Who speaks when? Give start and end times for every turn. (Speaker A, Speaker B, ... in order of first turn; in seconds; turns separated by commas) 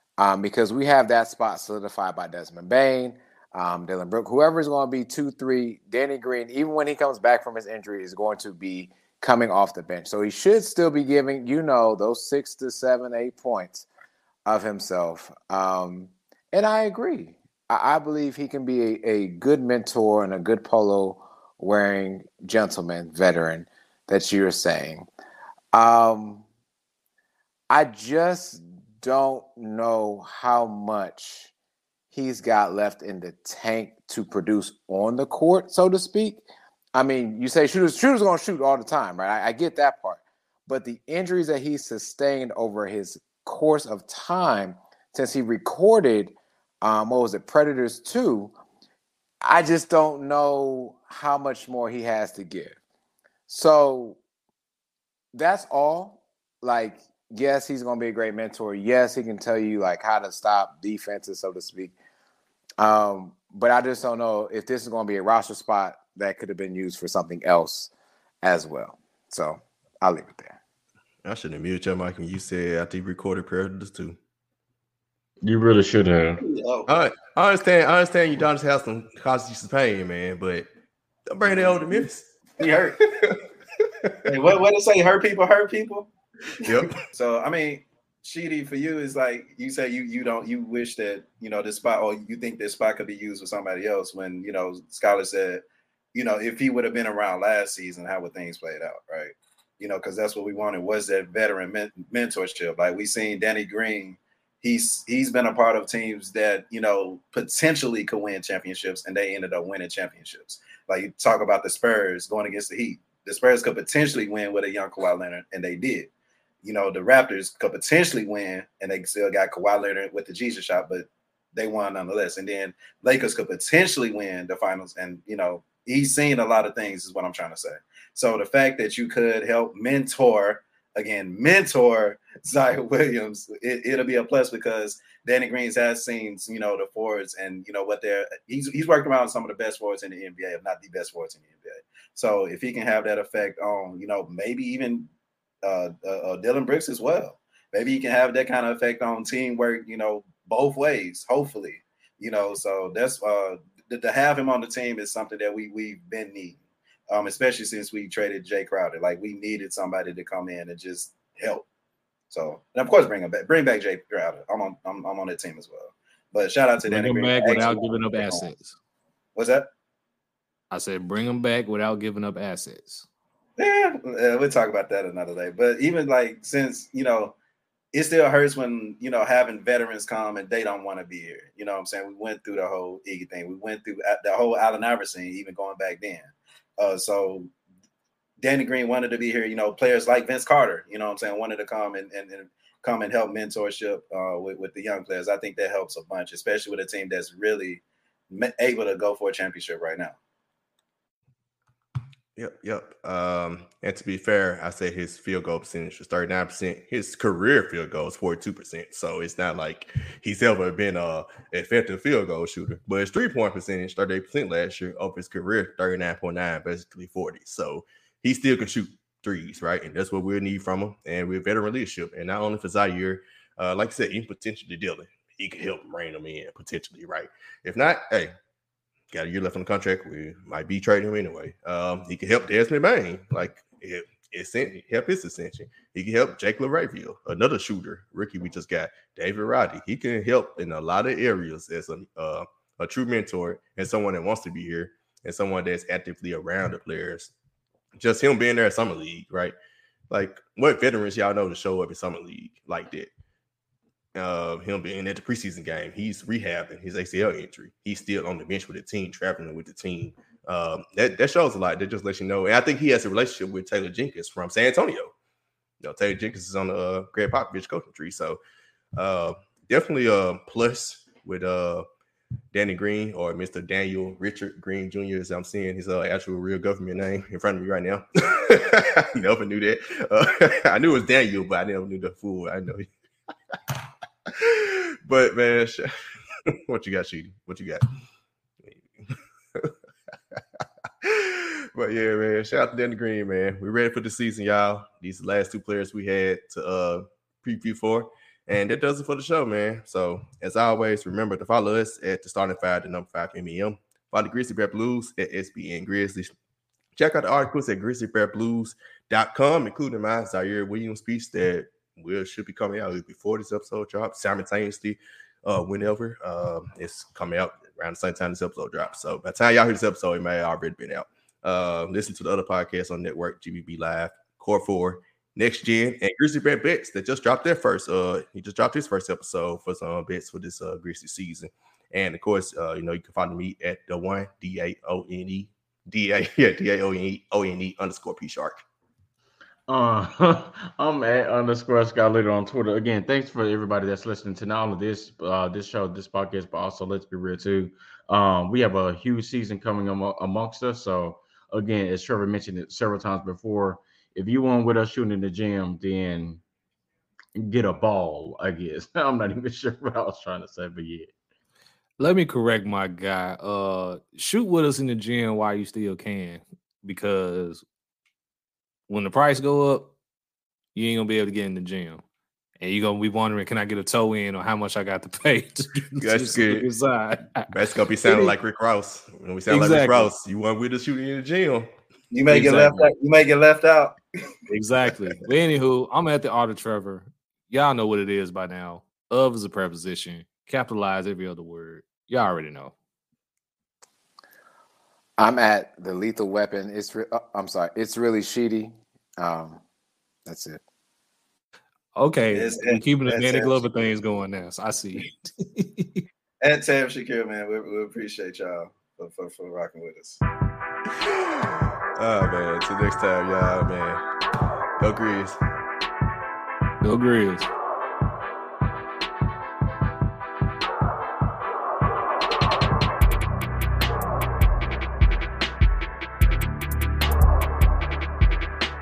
Speaker A: 0.2-13.8, Speaker A: 14.5-25.1, Speaker A: 25.7-26.4, Speaker A: 27.7-31.5, Speaker A: 32.1-36.4, Speaker A: 36.9-48.5, Speaker A: 49.4-52.8, Speaker A: 53.5-54.2, Speaker A: 55.3-61.9, Speaker A: 62.8-67.9, Speaker A: 68.4-70.6, Speaker B: 71.2-74.2, Speaker C: 75.4-76.4, Speaker D: 76.4-77.0, Speaker B: 76.9-80.7, Speaker B: 81.3-82.3, Speaker D: 81.4-82.1, Speaker D: 82.6-83.0, Speaker B: 84.0-84.3, Speaker D: 84.2-86.1, Speaker B: 86.6-86.9, Speaker D: 86.6-95.6, Speaker D: 96.1-116.1, Speaker D: 116.6-145.1, Speaker D: 145.6-161.7, Speaker D: 162.3-168.5, Speaker E: 166.8-168.8, Speaker D: 169.3-169.7, Speaker E: 170.7-173.1, Speaker D: 173.6-177.3, Speaker D: 177.9-187.5, Speaker D: 188.4-200.2, Speaker B: 202.3-228.3, Speaker B: 229.1-247.3, Speaker B: 247.9-249.5, Speaker B: 250.1-253.1, Speaker B: 254.2-265.1, Speaker B: 265.8-268.4, Speaker B: 268.9-271.8, Speaker B: 272.5-282.9, Speaker B: 284.3-285.9, Speaker B: 286.4-287.8, Speaker B: 288.6-289.7, Speaker B: 291.0-306.3, Speaker B: 306.9-338.6, Speaker C: 339.7-356.4, Speaker C: 357.4-361.1, Speaker E: 362.0-367.6, Speaker E: 368.9-369.9, Speaker E: 370.7-372.0, Speaker E: 372.6-377.5, Speaker B: 376.0-376.7, Speaker B: 377.5-381.7, Speaker E: 378.1-378.3, Speaker E: 379.5-380.1, Speaker D: 382.1-384.0, Speaker E: 382.3-382.9, Speaker E: 384.5-392.7, Speaker D: 384.9-385.1, Speaker A: 395.2-399.6, Speaker A: 400.2-400.6, Speaker E: 401.9-406.0, Speaker D: 402.3-404.2, Speaker D: 406.4-410.2, Speaker B: 412.0-414.0, Speaker B: 414.8-415.4, Speaker E: 416.8-417.4